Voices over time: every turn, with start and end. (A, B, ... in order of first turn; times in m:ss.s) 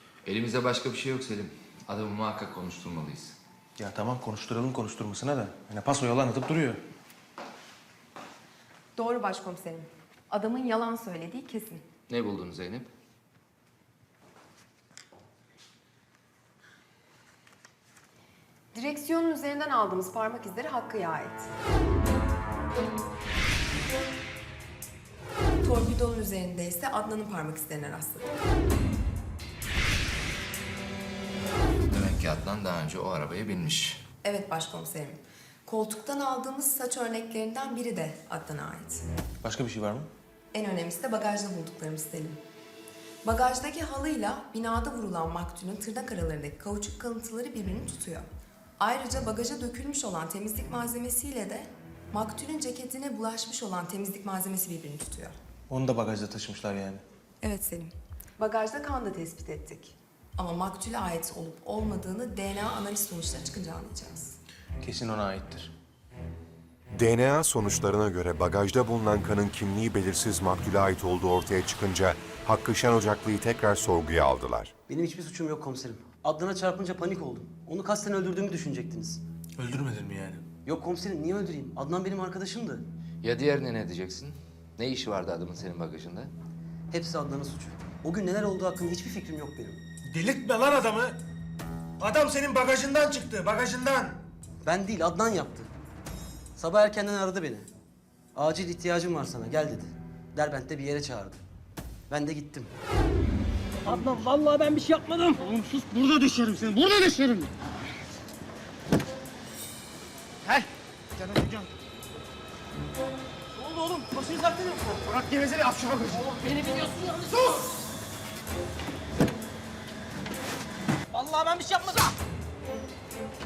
0:00.2-0:03.4 A
0:03.8-0:06.8 B
0:09.0-0:11.8 C
0:12.1-0:12.9 A
0:18.7-0:21.5 C
0:25.6-0:28.3 C
0:31.9-0:34.0 A
0:34.2-0:39.0 C
0:39.4-0:40.1 B
0:40.5-0:42.4 C
0:43.2-0:48.3 C
0:48.8-0:55.4 C
0:55.7-0:57.0 B
0:57.4-1:04.4 C
1:04.8-1:05.7 B
1:06.9-1:14.7 D
1:14.9-1:19.2 E
1:19.6-1:20.5 B
1:20.6-1:22.8 E
1:23.2-1:26.3 A
1:26.9-1:29.8 E
1:30.1-1:31.2 B
1:32.0-1:34.2 B
1:34.6-1:35.7 E
1:36.6-1:37.7 E
1:38.3-1:41.4 E
1:42.1-1:42.7 E
1:43.8-1:47.5 F
1:50.4-1:51.7 F
1:53.6-1:57.6 F
2:01.1-2:02.1 F